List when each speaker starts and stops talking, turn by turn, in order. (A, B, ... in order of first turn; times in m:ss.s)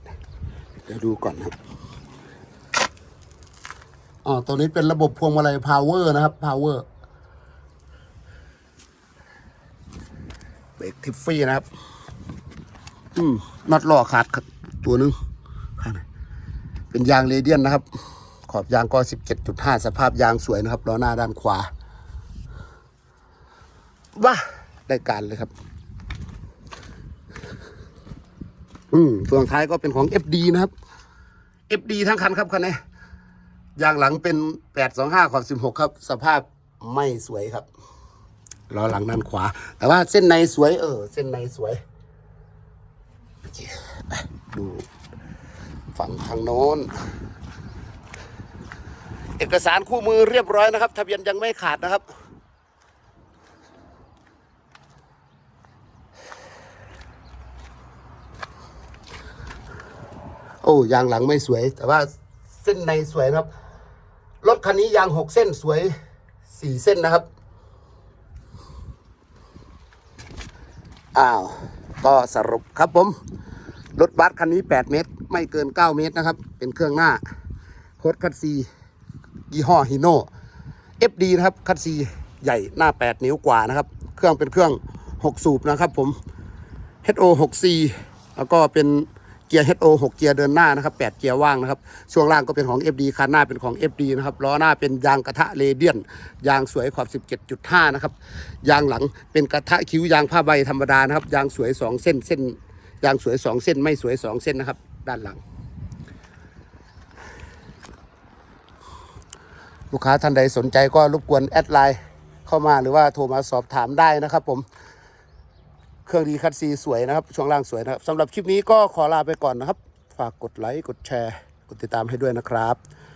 0:00.9-0:01.5 A
0:04.2-0:06.9 A
0:10.8-0:11.7 A
0:13.1-0:15.2 A
0:15.8-0:16.0 A
0:16.9-0:17.9 A
0:18.5-0:21.7 A
0:24.2-0:25.5 A
0:28.9-0:30.7 A
0:31.7-0:32.8 A
0:33.8-0:37.6 A
0:38.7-0:41.8 A
0:43.5-0:44.9 A
0:46.0-0:46.9 A
0:49.4-0:52.0 A
1:00.6-1:03.5 A
1:04.4-1:05.9 A
1:06.5-1:07.2 A
1:11.1-1:13.2 A
1:14.0-1:17.2 A
1:18.0-1:18.7 A
1:19.5-1:20.3 A
1:21.0-1:26.2 A
1:27.0-1:45.4 A
1:49.9-1:54.6 A
1:56.0-2:02.8 A